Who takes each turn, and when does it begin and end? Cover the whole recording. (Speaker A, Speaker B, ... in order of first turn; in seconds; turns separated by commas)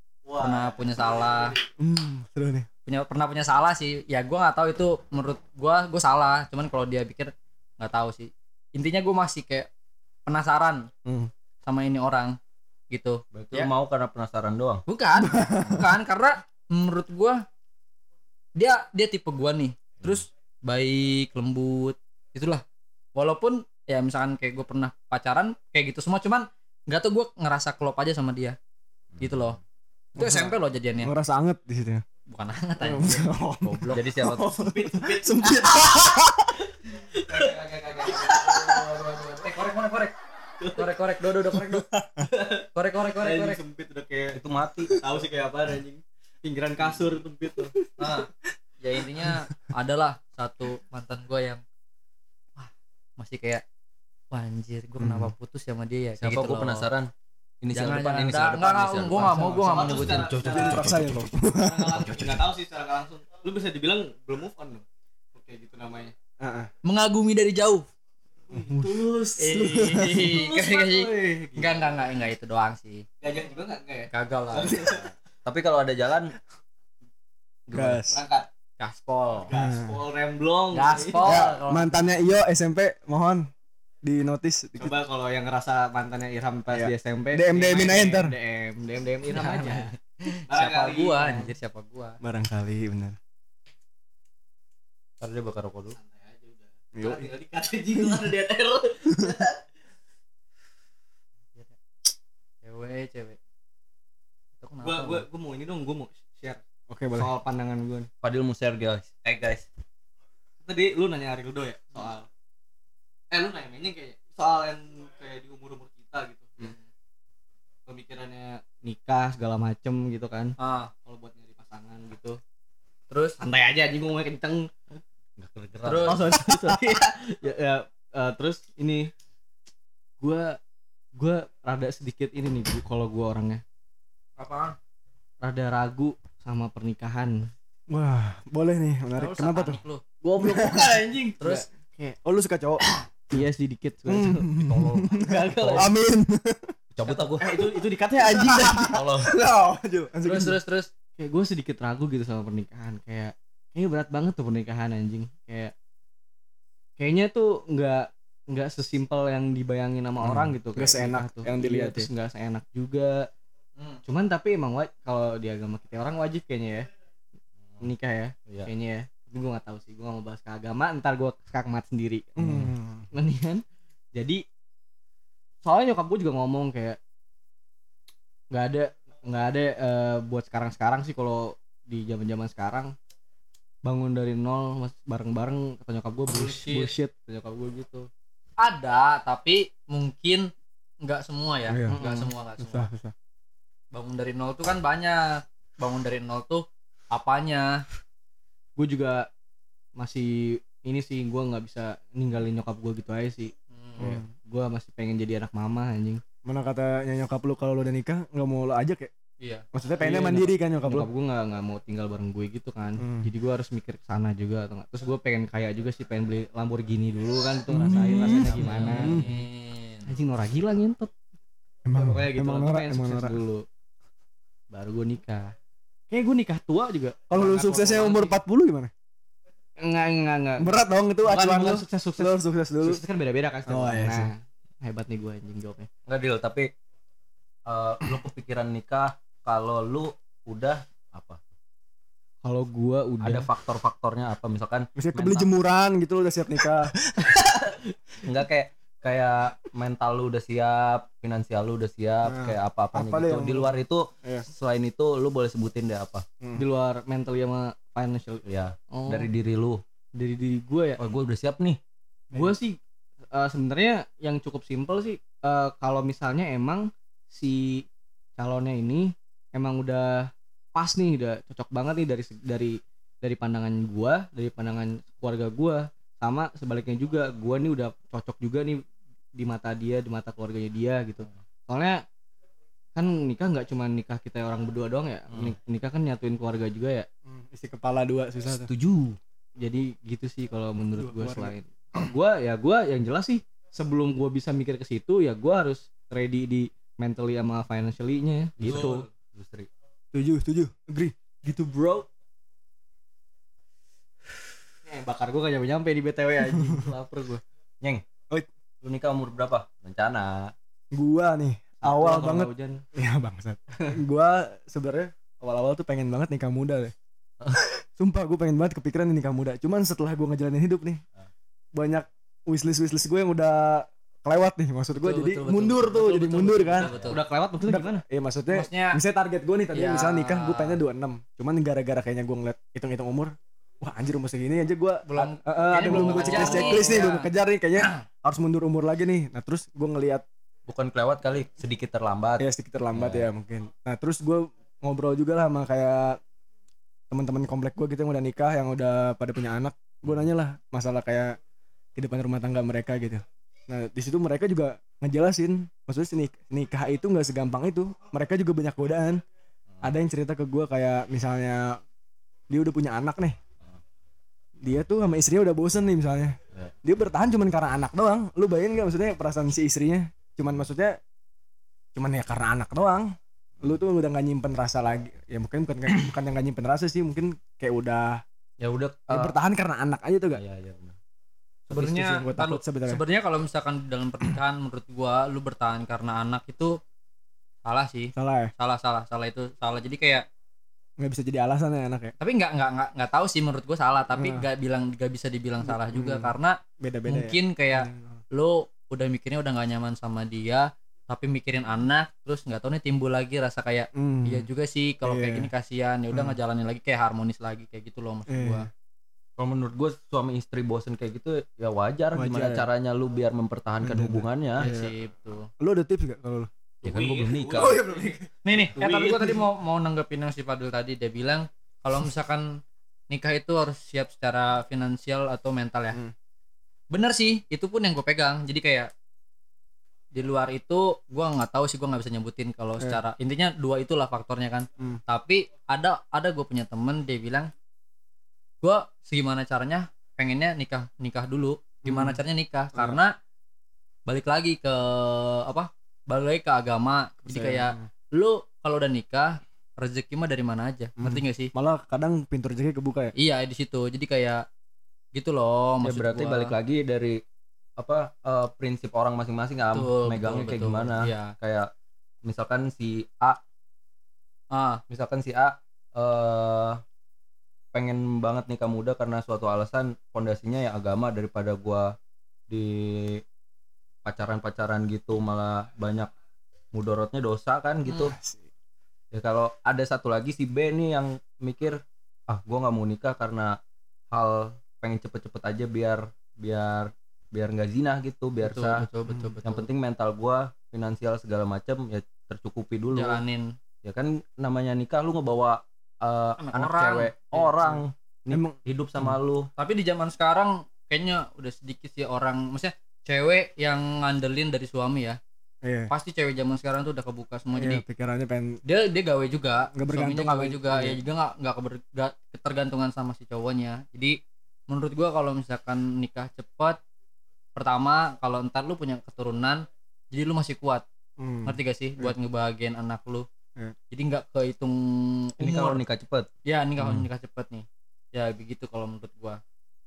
Speaker A: 0.2-1.6, Speaker B: 0.4-1.6, Speaker C: 1.8-2.7, Speaker B: 2.9-9.7, Speaker B: 10.2-10.9, Speaker C: 11.0-11.3, Speaker B: 11.6-12.4, Speaker B: 12.9-13.7, Speaker D: 13.3-14.8, Speaker B: 14.9-17.4, Speaker C: 15.2-15.8, Speaker B: 18.5-22.6, Speaker B: 23.1-28.6, Speaker D: 29.1-29.5, Speaker B: 29.2-29.6, Speaker B: 30.1-31.1, Speaker C: 30.1-32.0, Speaker B: 32.3-34.0, Speaker C: 32.8-36.6, Speaker D: 33.9-34.5, Speaker A: 34.5-36.1, Speaker A: 37.1-38.8, Speaker B: 37.2-40.1, Speaker A: 40.6-40.9, Speaker B: 40.7-41.9, Speaker C: 41.5-42.3, Speaker A: 42.2-47.7, Speaker B: 42.7-43.6, Speaker D: 44.3-45.0, Speaker B: 48.0-48.3, Speaker B: 48.8-51.6, Speaker B: 52.6-53.6, Speaker B: 54.3-56.9, Speaker C: 55.0-55.3, Speaker D: 56.2-57.1, Speaker D: 57.6-61.1, Speaker B: 57.7-60.8, Speaker A: 59.3-64.8, Speaker C: 60.4-62.1, Speaker D: 62.0-62.4, Speaker A: 65.3-66.1, Speaker C: 66.4-66.7, Speaker B: 66.8-67.8, Speaker A: 68.5-72.0, Speaker C: 68.5-70.2, Speaker B: 69.4-73.0, Speaker A: 73.2-75.1, Speaker B: 74.1-74.8, Speaker D: 75.4-76.3, Speaker D: 77.7-78.0, Speaker C: 77.7-78.2, Speaker A: 78.0-78.5, Speaker B: 78.8-79.5, Speaker A: 79.4-81.5, Speaker C: 79.5-80.0, Speaker B: 80.7-82.0, Speaker C: 81.2-83.5, Speaker C: 84.0-85.0, Speaker A: 84.8-89.9, Speaker C: 86.7-88.3, Speaker B: 89.3-92.2, Speaker A: 90.5-91.5, Speaker C: 92.2-93.2, Speaker D: 95.2-96.0, Speaker A: 95.9-99.6, Speaker C: 97.0-97.3, Speaker B: 102.6-103.4, Speaker B: 104.6-105.2, Speaker A: 104.8-106.6, Speaker C: 106.9-107.3, Speaker A: 107.1-108.1, Speaker D: 108.2-109.7, Speaker A: 110.6-112.3, Speaker A: 113.3-116.8, Speaker A: 117.9-122.4, Speaker B: 120.6-120.9, Speaker B: 123.1-123.4, Speaker A: 123.4-124.7, Speaker D: 125.4-126.3, Speaker B: 125.8-126.2, Speaker A: 126.0-129.1, Speaker A: 130.2-130.6, Speaker A: 131.2-133.6, Speaker B: 134.4-134.8, Speaker A: 135.4-137.5, Speaker C: 137.9-139.8, Speaker B: 139.2-140.0, Speaker A: 140.2-142.2, Speaker C: 140.4-141.0, Speaker B: 141.4-141.7, Speaker C: 142.2-143.4, Speaker A: 142.8-145.9, Speaker C: 144.1-146.7, Speaker D: 145.6-145.8, Speaker D: 146.9-147.7, Speaker A: 147.1-149.0, Speaker C: 148.2-150.6, Speaker D: 148.9-149.3, Speaker B: 150.2-150.9, Speaker A: 151.2-155.7, Speaker A: 157.0-163.3, Speaker C: 160.2-162.1, Speaker B: 163.8-164.0, Speaker A: 164.1-166.9, Speaker A: 167.8-173.6, Speaker C: 172.4-173.1, Speaker A: 174.1-174.4, Speaker A: 175.6-177.0, Speaker A: 178.5-182.9, Speaker A: 183.8-188.1, Speaker B: 186.3-186.9, Speaker B: 188.6-190.5, Speaker B: 191.0-192.9, Speaker C: 191.7-192.0, Speaker A: 191.9-192.3, Speaker C: 192.6-193.1, Speaker B: 193.9-197.8, Speaker A: 198.8-199.3, Speaker A: 200.0-206.2, Speaker B: 203.7-204.1, Speaker C: 204.0-204.3, Speaker C: 206.4-209.1, Speaker B: 209.4-209.6, Speaker C: 209.7-211.1, Speaker A: 210.0-219.4, Speaker C: 213.0-213.3, Speaker C: 217.7-219.3, Speaker B: 218.3-220.1, Speaker A: 220.1-221.1, Speaker C: 221.8-223.4, Speaker A: 221.9-223.7, Speaker A: 224.7-225.5, Speaker A: 226.1-228.3, Speaker C: 227.3-228.9, Speaker A: 229.8-230.7, Speaker C: 230.6-233.0, Speaker A: 231.2-235.9, Speaker C: 233.7-234.3, Speaker D: 236.1-236.7, Speaker D: 237.7-241.4, Speaker A: 242.4-243.5, Speaker D: 243.2-245.5, Speaker C: 244.9-247.4, Speaker A: 247.2-247.9, Speaker D: 248.2-256.2, Speaker C: 252.2-254.5, Speaker A: 256.6-259.3, Speaker D: 258.4-259.8, Speaker A: 260.1-261.0, Speaker D: 261.0-261.8, Speaker C: 262.3-262.6, Speaker A: 262.3-262.8, Speaker A: 263.3-267.8, Speaker A: 268.4-278.8, Speaker A: 279.4-282.0, Speaker A: 282.9-287.1, Speaker C: 287.3-288.7, Speaker D: 288.5-289.2, Speaker A: 289.6-299.1, Speaker C: 290.9-291.5, Speaker D: 298.6-299.7, Speaker C: 300.1-302.1, Speaker A: 304.9-307.4, Speaker C: 306.6-306.9, Speaker D: 308.8-310.5, Speaker C: 310.9-316.9, Speaker A: 311.8-312.8, Speaker C: 317.5-321.0, Speaker C: 321.7-326.9, Speaker B: 324.9-327.2, Speaker D: 326.8-327.2, Speaker A: 327.1-328.0, Speaker C: 327.6-340.2, Speaker B: 328.5-329.0, Speaker B: 329.7-330.8, Speaker B: 335.1-338.0, Speaker D: 335.9-336.8, Speaker D: 340.7-343.3, Speaker C: 342.4-346.2, Speaker C: 347.1-351.4, Speaker C: 351.9-359.2, Speaker C: 359.8-361.8, Speaker C: 362.5-363.4, Speaker C: 364.6-371.0, Speaker C: 371.9-378.2, Speaker D: 378.6-379.3, Speaker C: 379.1-380.4, Speaker D: 380.3-380.9, Speaker C: 381.7-383.0, Speaker B: 381.7-386.8, Speaker B: 387.6-390.3, Speaker C: 388.1-388.5, Speaker C: 391.0-392.1, Speaker B: 392.2-408.7, Speaker C: 394.1-394.4, Speaker C: 395.6-398.2, Speaker C: 403.9-404.5, Speaker C: 405.0-405.5, Speaker C: 406.1-406.4, Speaker C: 408.3-408.7, Speaker D: 409.4-414.6, Speaker C: 412.1-412.7, Speaker C: 413.8-414.9, Speaker B: 414.6-415.5, Speaker C: 415.6-416.5, Speaker D: 416.8-417.8, Speaker A: 416.8-418.1, Speaker C: 417.5-418.3, Speaker B: 418.4-422.6, Speaker A: 418.7-419.4, Speaker B: 423.1-426.0, Speaker B: 426.9-428.9, Speaker B: 430.1-437.5, Speaker B: 438.6-443.1, Speaker C: 441.8-442.2, Speaker B: 444.1-451.5, Speaker C: 447.3-447.9, Speaker C: 451.0-453.1, Speaker B: 453.1-454.4, Speaker B: 455.1-456.5, Speaker D: 455.8-457.2, Speaker D: 457.8-461.7, Speaker B: 459.7-461.3, Speaker D: 462.2-463.4, Speaker B: 464.5-464.8, Speaker D: 464.9-466.8, Speaker D: 467.7-471.9, Speaker D: 472.5-473.2, Speaker D: 474.0-476.1, Speaker D: 476.7-478.1, Speaker B: 477.9-478.1, Speaker C: 478.0-478.4, Speaker D: 479.1-483.6, Speaker D: 484.1-488.9, Speaker B: 488.4-489.7, Speaker D: 489.4-493.2, Speaker B: 492.9-493.5, Speaker D: 493.8-499.5, Speaker B: 496.4-497.8, Speaker C: 498.3-499.1, Speaker B: 499.6-505.2, Speaker C: 505.6-505.9, Speaker B: 505.9-507.8, Speaker C: 507.6-508.6, Speaker B: 508.6-514.2, Speaker C: 509.7-511.0, Speaker B: 514.7-516.8, Speaker B: 517.5-520.8, Speaker C: 521.2-522.1, Speaker B: 521.4-523.2, Speaker B: 523.9-525.8, Speaker D: 525.4-526.3, Speaker B: 526.5-529.4, Speaker C: 526.8-527.1